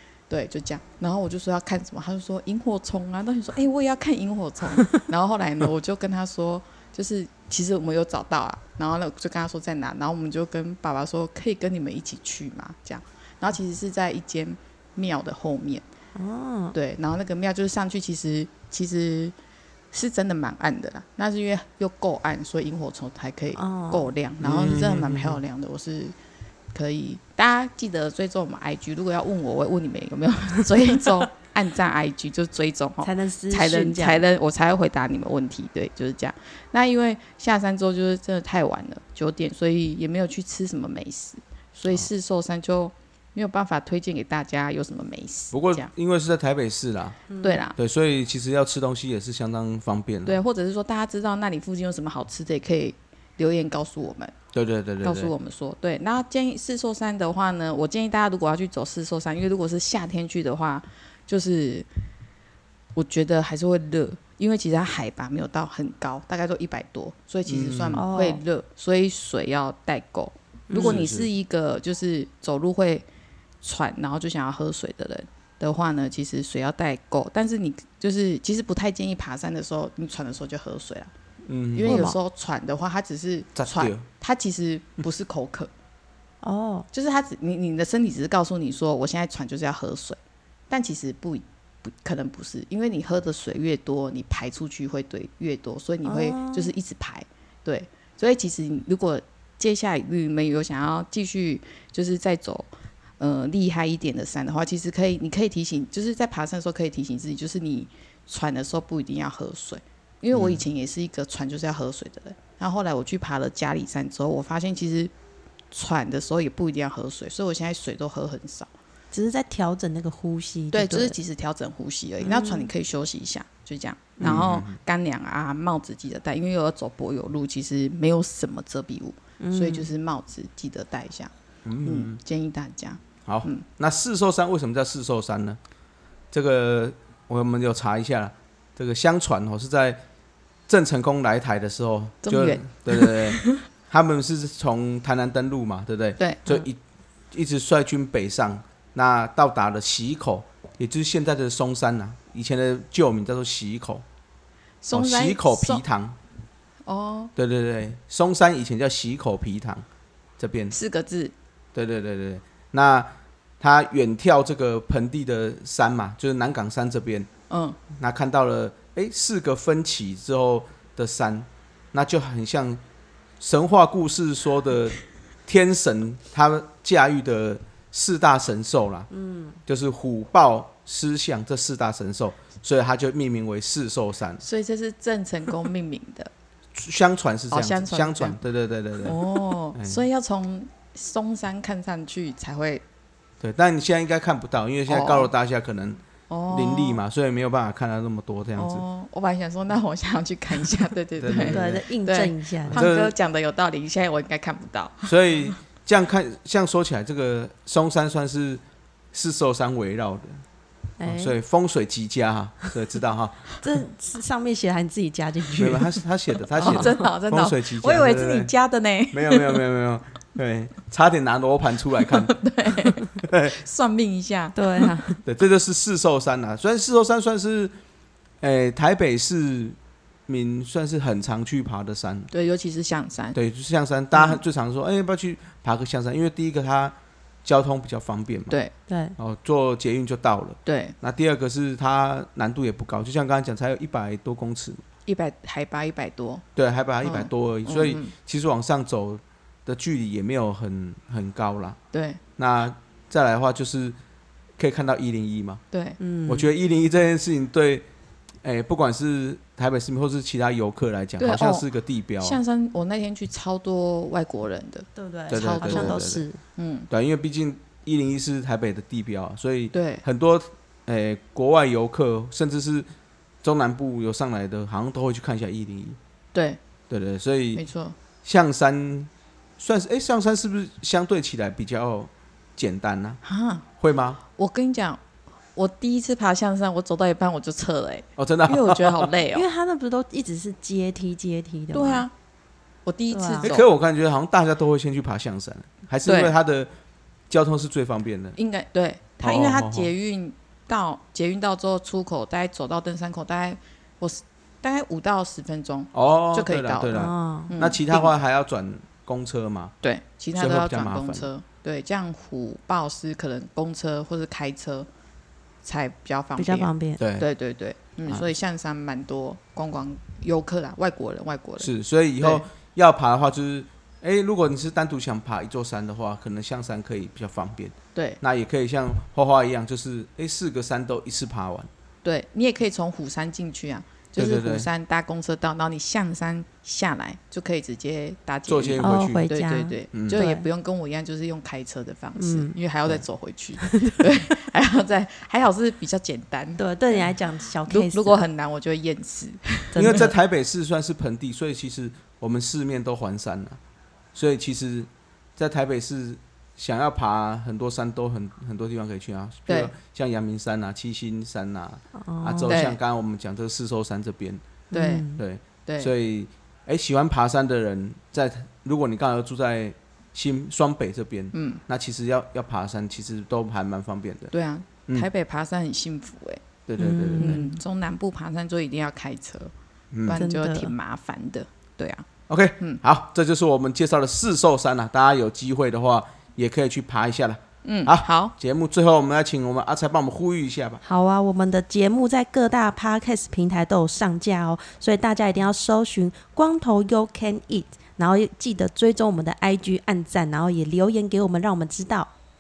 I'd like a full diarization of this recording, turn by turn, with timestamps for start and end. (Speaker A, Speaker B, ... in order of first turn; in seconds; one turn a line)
Speaker A: 0.3-15.8
Speaker B: 16.1-16.8
Speaker A: 16.7-19.3
Speaker A: 19.9-26.1
Speaker B: 23.6-24.1
Speaker C: 24.4-25.4
Speaker A: 26.7-45.9
Speaker B: 33.0-34.2
Speaker C: 45.5-47.2
Speaker B: 47.3-47.6
Speaker A: 47.4-47.8
Speaker C: 47.8-50.4
Speaker A: 50.2-54.4
Speaker C: 54.5-55.3
Speaker A: 55.0-61.9
Speaker A: 63.0-73.1
Speaker C: 67.5-68.0
Speaker B: 68.0-68.4
Speaker B: 70.7-71.0
Speaker C: 70.8-71.3
Speaker A: 73.6-81.1
Speaker C: 81.5-82.0
Speaker A: 81.8-85.7
Speaker B: 81.9-82.2
Speaker C: 83.6-84.0
Speaker B: 86.4-86.9
Speaker A: 86.9-90.2
Speaker A: 90.7-102.7
Speaker B: 96.0-96.7
Speaker A: 103.2-115.1
Speaker C: 110.3-110.6
Speaker A: 115.7-118.7
Speaker B: 119.1-121.2
Speaker A: 120.7-131.3
Speaker B: 122.2-122.7
Speaker C: 124.2-124.8
Speaker B: 129.4-129.9
Speaker C: 131.6-132.2
Speaker A: 131.8-133.6
Speaker C: 133.2-135.6
Speaker C: 136.3-140.0
Speaker C: 140.7-146.8
Speaker A: 142.2-143.6
Speaker A: 146.2-146.6
Speaker C: 147.3-154.0
Speaker A: 154.8-155.8
Speaker C: 154.9-156.2
Speaker A: 156.9-157.3
Speaker C: 157.4-159.8
Speaker C: 160.4-160.7
Speaker A: 160.7-161.3
Speaker C: 161.7-167.3
Speaker A: 167.5-167.8
Speaker C: 167.9-172.8
Speaker C: 173.4-179.1
Speaker B: 179.1-179.6
Speaker C: 179.7-184.4
Speaker A: 184.4-186.3
Speaker C: 186.8-190.0
Speaker A: 187.5-188.4
Speaker A: 189.0-192.8
Speaker C: 193.4-198.8
Speaker A: 194.9-195.3
Speaker A: 196.3-197.0
Speaker A: 198.6-205.6
Speaker C: 201.2-201.8
Speaker B: 201.5-202.8
Speaker C: 202.7-203.1
Speaker C: 205.1-208.6
Speaker C: 209.1-210.4
Speaker B: 211.0-211.3
Speaker C: 211.1-213.5
Speaker B: 213.6-216.0
Speaker C: 215.6-218.5
Speaker B: 216.6-217.0
Speaker A: 216.6-219.6
Speaker C: 219.1-222.3
Speaker A: 222.1-225.1
Speaker C: 223.2-223.6
Speaker B: 224.6-225.2
Speaker C: 225.2-227.7
Speaker C: 228.4-229.8
Speaker C: 230.3-232.3
Speaker A: 232.3-233.4
Speaker C: 233.3-238.6
Speaker B: 238.9-239.2
Speaker C: 239.2-244.8
Speaker A: 240.7-240.9
Speaker A: 245.1-246.4
Speaker C: 246.6-251.8
Speaker A: 247.0-248.1
Speaker A: 251.9-252.2
Speaker C: 252.4-253.9
Speaker C: 254.6-255.6
Speaker A: 255.7-256.0
Speaker B: 256.0-256.5
Speaker C: 256.3-257.9
Speaker C: 258.4-262.4
Speaker A: 261.2-261.7
Speaker A: 262.2-266.1
Speaker B: 265.0-266.4
Speaker C: 265.3-266.2
Speaker A: 266.6-266.9
Speaker C: 266.9-272.9
Speaker A: 269.7-270.0
Speaker C: 273.4-276.0
Speaker A: 276.3-276.6
Speaker C: 276.9-277.6
Speaker A: 277.6-277.9
Speaker C: 278.2-283.2
Speaker A: 283.2-283.6
Speaker C: 283.8-284.2
Speaker A: 284.4-285.0
Speaker A: 285.6-289.4
Speaker C: 288.2-289.1
Speaker B: 289.3-292.1
Speaker A: 291.7-292.1
Speaker A: 292.9-293.6
Speaker B: 293.1-293.5
Speaker C: 293.4-296.7
Speaker A: 296.1-296.3
Speaker C: 297.3-298.4
Speaker A: 298.4-308.1
Speaker C: 299.2-299.9
Speaker C: 305.9-309.7
Speaker B: 306.9-307.5
Speaker A: 309.8-314.9
Speaker C: 310.4-311.3
Speaker A: 315.6-322.4
Speaker B: 316.4-317.0
Speaker C: 317.0-317.3
Speaker C: 321.6-331.7
Speaker A: 327.9-328.2
Speaker A: 332.0-347.1
Speaker C: 334.1-334.7
Speaker C: 338.5-339.3
Speaker B: 338.8-340.4
Speaker C: 339.9-340.2
Speaker B: 342.2-342.6
Speaker B: 343.6-344.1
Speaker B: 346.6-348.2
Speaker A: 347.7-350.1
Speaker B: 349.7-350.1
Speaker C: 349.8-353.6
Speaker C: 354.1-364.4
Speaker B: 362.0-362.6
Speaker A: 362.5-362.8
Speaker B: 364.7-365.2
Speaker A: 364.7-365.1
Speaker C: 365.1-374.3
Speaker A: 365.6-365.9
Speaker A: 371.3-371.6
Speaker A: 374.3-376.4
Speaker C: 376.7-377.4
Speaker B: 376.8-377.6
Speaker A: 377.2-379.5
Speaker C: 379.9-380.2
Speaker A: 380.1-382.1
Speaker B: 380.1-380.7
Speaker C: 382.3-390.8
Speaker A: 387.6-388.3
Speaker B: 390.8-402.1